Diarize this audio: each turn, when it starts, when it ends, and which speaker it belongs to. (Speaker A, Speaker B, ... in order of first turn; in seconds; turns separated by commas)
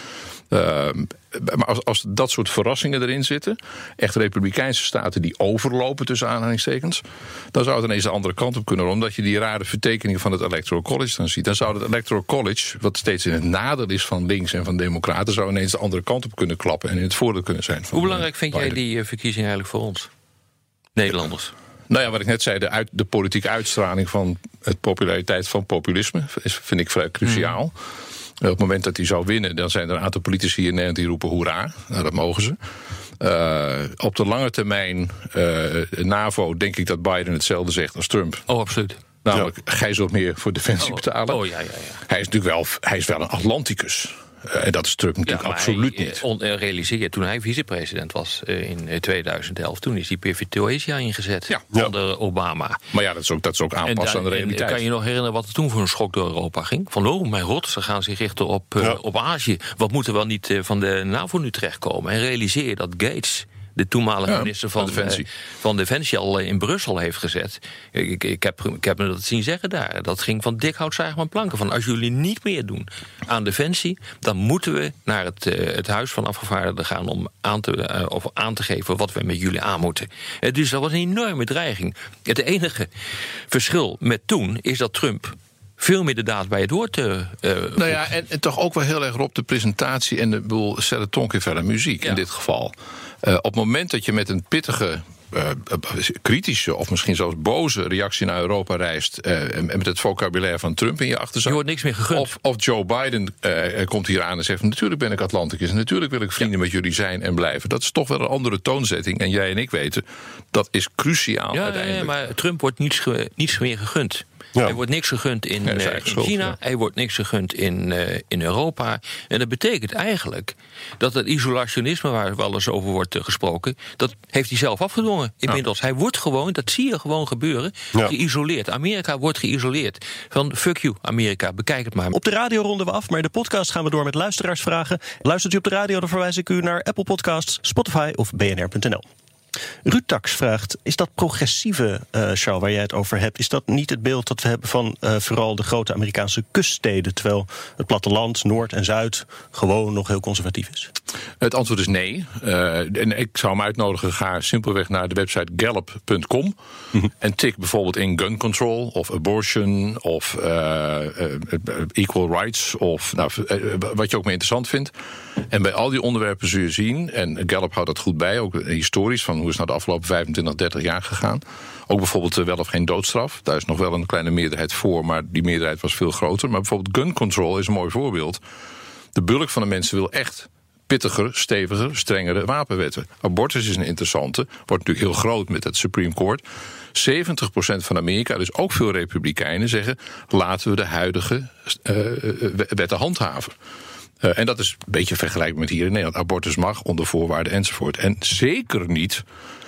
Speaker A: 0.5-7.0, Speaker A: 7.5-18.8, Speaker B: 17.9-20.1, Speaker B: 21.0-21.5, Speaker A: 21.9-27.8, Speaker B: 27.2-27.6, Speaker A: 28.4-32.6, Speaker A: 33.2-38.5, Speaker B: 38.5-39.0, Speaker A: 39.2-41.4, Speaker B: 40.8-42.0, Speaker A: 42.1-46.2, Speaker B: 45.3-52.8, Speaker A: 52.9-54.8, Speaker B: 53.9-82.9, Speaker A: 64.3-65.3, Speaker B: 83.5-88.0, Speaker A: 87.8-101.6, Speaker B: 101.5-102.3, Speaker A: 102.1-112.1, Speaker B: 111.5-132.1, Speaker A: 115.7-116.6, Speaker C: 132.1-139.1, Speaker C: 139.8-150.9, Speaker A: 151.4-164.9, Speaker A: 165.5-178.4, Speaker A: 179.2-186.4, Speaker A: 186.9-193.5, Speaker A: 194.2-199.2